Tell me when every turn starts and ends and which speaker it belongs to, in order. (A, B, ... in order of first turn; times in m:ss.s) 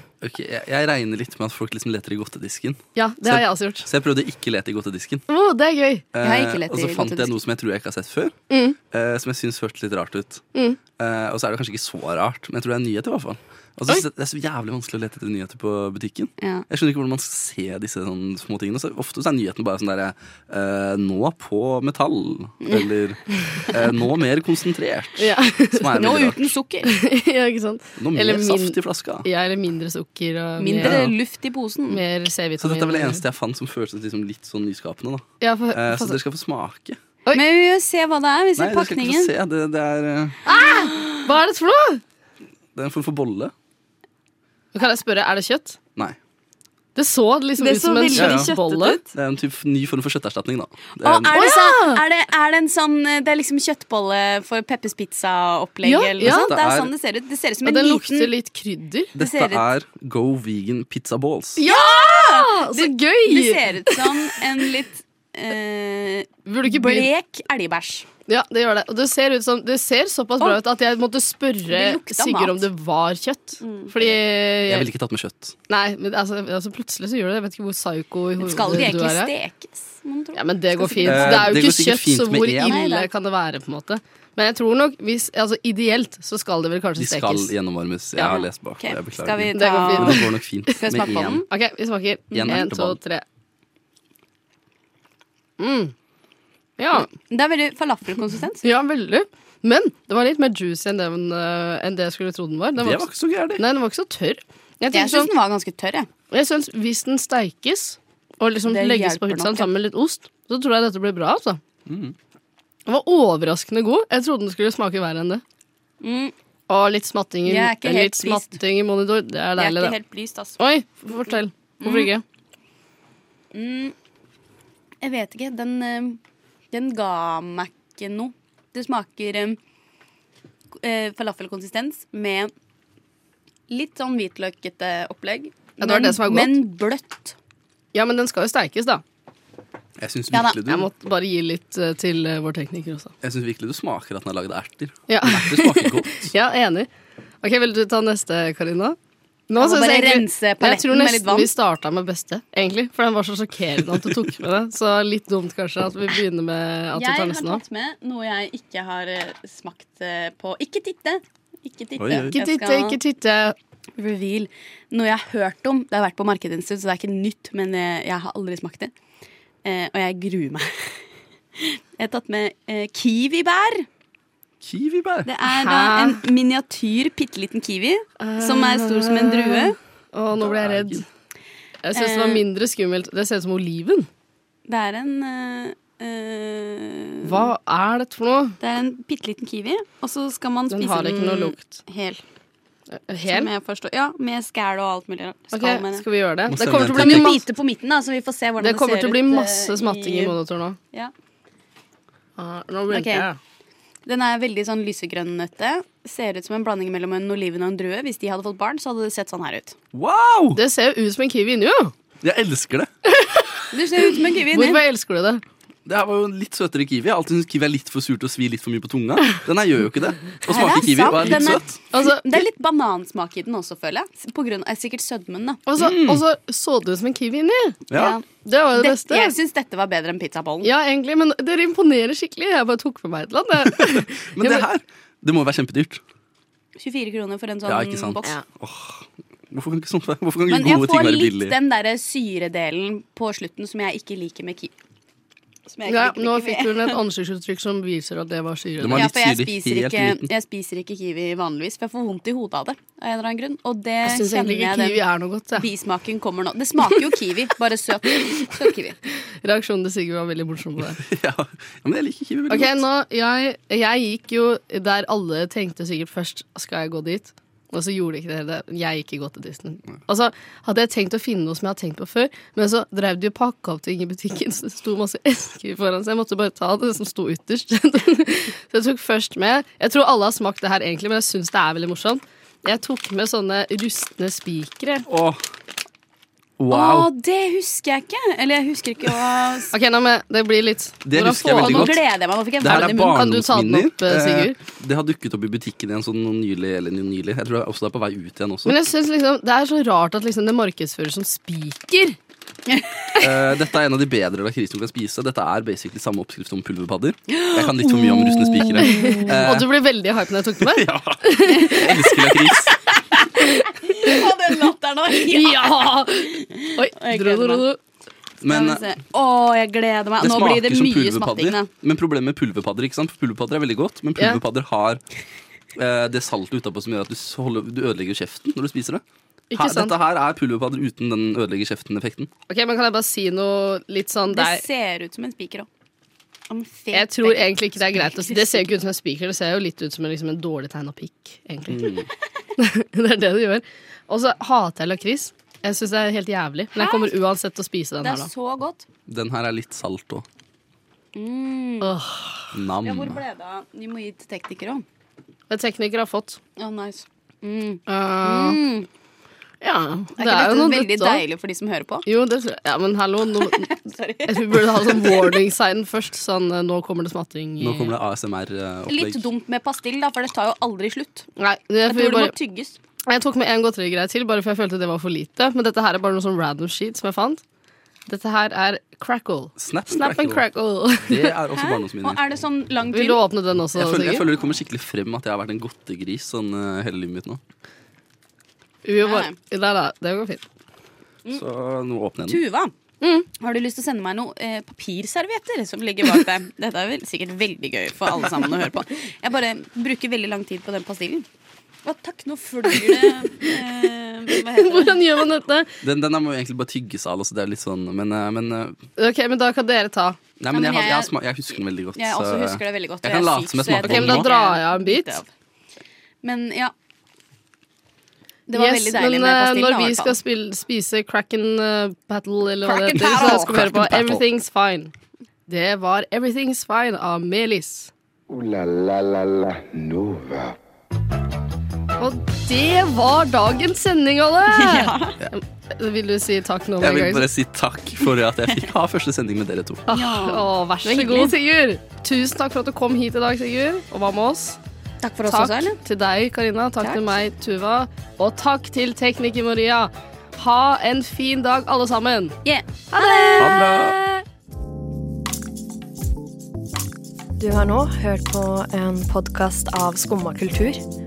0:00.2-0:05.2 A
0:03.0-0:03.9 B
0:05.3-0:06.1 B
0:06.1-0:08.4 A
0:06.2-0:07.4 C
0:08.5-0:08.8 B
0:08.9-0:10.4 A
0:11.0-0:26.5 A
0:16.4-0:16.6 C
0:22.6-0:22.9 C
0:25.2-0:25.9 B
0:25.9-0:27.0 C
0:26.8-0:31.0 B
0:28.0-0:29.3 A
0:30.6-0:32.0 C
0:30.8-0:31.1 A
0:31.9-0:33.2 B
0:32.6-0:37.0 A
0:35.4-0:36.2 B
0:37.3-0:39.3 C
0:38.6-0:40.4 A
0:40.4-0:42.0 B
0:42.8-0:43.5 A
0:44.8-0:45.8 B
0:47.0-0:49.0 B
0:47.6-0:49.1 C
0:48.2-0:48.5 A
0:49.1-0:51.4 A
0:51.0-0:58.3 C
0:51.3-0:52.0 B
0:55.8-0:56.5 B
0:56.2-0:56.9 A
0:57.6-0:59.1 B
0:59.2-1:01.6 A
0:59.2-0:59.6 C
1:01.6-1:04.4 B
1:01.7-1:08.1 C
1:06.5-1:07.1 B
1:08.3-1:14.9 B
1:11.7-1:12.7 C
1:13.6-1:13.9 C
1:14.7-1:15.6 A
1:15.7-1:19.3 B
1:18.4-1:21.6 C
1:20.4-1:27.5 B
1:21.0-1:22.8 A
1:22.6-1:23.1 C
1:27.0-1:31.4 A
1:28.2-1:30.3 C
1:29.6-1:30.3 B
1:30.8-1:31.5 C
1:31.5-1:33.2 B
1:32.3-1:33.0 A
1:35.6-1:35.9 B
1:36.8-1:37.1 B
1:37.0-1:38.6 C
1:38.6-1:45.3 B
1:42.8-1:43.6 A
1:44.9-1:46.1 C
1:46.3-1:51.6 B
1:48.7-1:49.7 C
1:51.9-1:52.2 A
1:52.9-1:55.4 B
1:56.0-1:56.3 C
1:56.7-2:00.0 B
1:57.5-1:58.6 C
1:59.6-2:00.6 C
2:00.6-2:02.2 B
2:01.8-2:02.1 C
2:03.5-2:03.9 C
2:05.0-2:06.2 C
2:06.7-2:09.6 C
2:10.8-2:12.5 C
2:13.7-2:17.4 C
2:15.8-2:16.6 B
2:17.9-2:19.0 B
2:20.0-2:20.9 A
2:20.3-2:20.6 C
2:20.7-2:23.1 B
2:23.2-2:26.3 A
2:25.1-2:26.9 B
2:27.4-2:29.0 B
2:29.5-2:37.6 B
2:29.6-2:31.5 C
2:37.0-2:43.0 C
2:42.0-2:42.4 A
2:42.4-2:43.6 B
2:44.0-2:48.9 C
2:49.6-2:51.0 C
2:51.6-2:53.9 C
2:54.6-2:55.3 A
2:55.3-2:59.8 C
2:55.5-2:56.2 B
2:58.2-3:01.0 B
3:00.4-3:01.0 A
3:01.8-3:04.1 B
3:01.9-3:02.4 C
3:04.7-3:07.5 C
3:07.2-3:08.6 B
3:08.6-3:12.2 C
3:10.7-3:11.8 B
3:12.9-3:13.5 B
3:13.3-3:16.0 C
3:15.5-3:17.4 B
3:16.5-3:17.3 A
3:16.8-3:20.4 C
3:18.6-3:20.8 B
3:22.4-3:23.4 B
3:22.9-3:23.3 C
3:24.1-3:29.8 C
3:29.9-3:30.6 A
3:30.6-3:31.9 B
3:32.2-3:32.9 A
3:33.2-3:33.6 B
3:33.7-3:34.8 C
3:34.5-3:35.4 B
3:35.8-3:41.8 A
3:40.5-3:45.6 C
3:41.9-3:42.4 B
3:45.7-3:47.8 B
3:45.8-3:46.2 A
3:47.9-3:48.2 A
3:47.9-3:50.7 C
3:48.4-3:49.4 B
3:50.6-3:54.7 B
3:53.6-3:56.0 A
3:56.8-3:58.4 C
3:57.6-4:01.6 A
4:00.5-4:04.7 C
4:05.7-4:07.0 C
4:05.9-4:09.1 B
4:08.8-4:10.3 A
4:08.9-4:15.0 C
4:14.0-4:15.6 B
4:15.6-4:19.0 C
4:19.4-4:21.0 B
4:21.0-4:22.8 A
4:22.5-4:45.1 B
4:45.1-4:45.4 A
4:46.6-4:47.1 A
4:46.7-4:49.7 C
4:49.7-4:51.9 B
4:51.0-4:52.1 A
4:51.6-4:53.2 C
4:52.6-4:58.8 A
4:53.1-4:54.6 B
4:58.7-5:02.2 B
5:02.7-5:03.2 C
5:03.2-5:09.7 A
5:07.3-5:09.4 C
5:08.8-5:12.3 B
5:10.6-5:12.8 A
5:13.4-5:14.2 B
5:13.8-5:17.7 C
5:15.1-5:17.8 B
5:18.4-5:19.0 A
5:18.4-5:21.7 C
5:20.2-5:25.0 A
5:25.8-5:29.0 A
5:29.5-5:30.0 B
5:29.6-5:32.3 A
5:32.5-5:34.6 B
5:34.3-5:35.7 C
5:36.5-5:38.7 C
5:36.9-5:42.0 B
5:41.7-5:42.1 A
5:42.6-5:48.3 B
5:46.8-5:47.2 C
5:48.0-5:48.9 C
5:49.1-5:50.2 A
5:51.2-5:51.9 C
5:51.8-5:52.5 B
5:52.5-5:53.2 A
5:52.8-5:54.8 C
5:55.5-5:56.4 B
5:56.6-5:58.9 C
5:57.9-5:58.6 B
5:59.6-6:01.2 B
6:00.2-6:02.1 C
6:02.1-6:03.7 B
6:03.4-6:05.4 C
6:04.3-6:07.9 B
6:07.6-6:09.3 A
6:08.9-6:11.3 C
6:11.4-6:12.4 B
6:11.9-6:12.8 C
6:13.1-6:17.4 B
6:18.1-6:21.3 B
6:19.6-6:20.4 A
6:21.1-6:22.2 A
6:21.5-6:23.2 C
6:22.9-6:24.3 B
6:23.8-6:27.4 A
6:28.9-6:30.4 B
6:29.0-6:29.4 C
6:31.3-6:32.4 A
6:32.3-6:32.7 C
6:33.0-6:33.3 B
6:33.4-6:41.3 C
6:41.8-6:45.2 C
6:44.6-6:45.7 B
6:45.8-6:48.8 A
6:49.0-6:50.2 B
6:50.4-6:54.3 A
6:50.5-6:55.3 C
6:53.8-6:55.2 B
6:56.2-6:56.7 C
6:58.5-7:00.2 C
6:58.5-7:04.9 B
7:02.6-7:03.7 C
7:03.0-7:04.3 A
7:05.5-7:07.9 B
7:08.3-7:10.6 D
7:12.0-7:17.3 B
7:14.5-7:15.2 C
7:16.8-7:19.9 A
7:19.9-7:24.6 B
7:19.9-7:21.3 C
7:25.0-7:25.8 C
7:25.3-7:32.4 B
7:26.8-7:27.2 C
7:32.4-7:33.6 C
7:32.9-7:34.1 B
7:33.4-7:34.0 A
7:37.4-7:40.8 E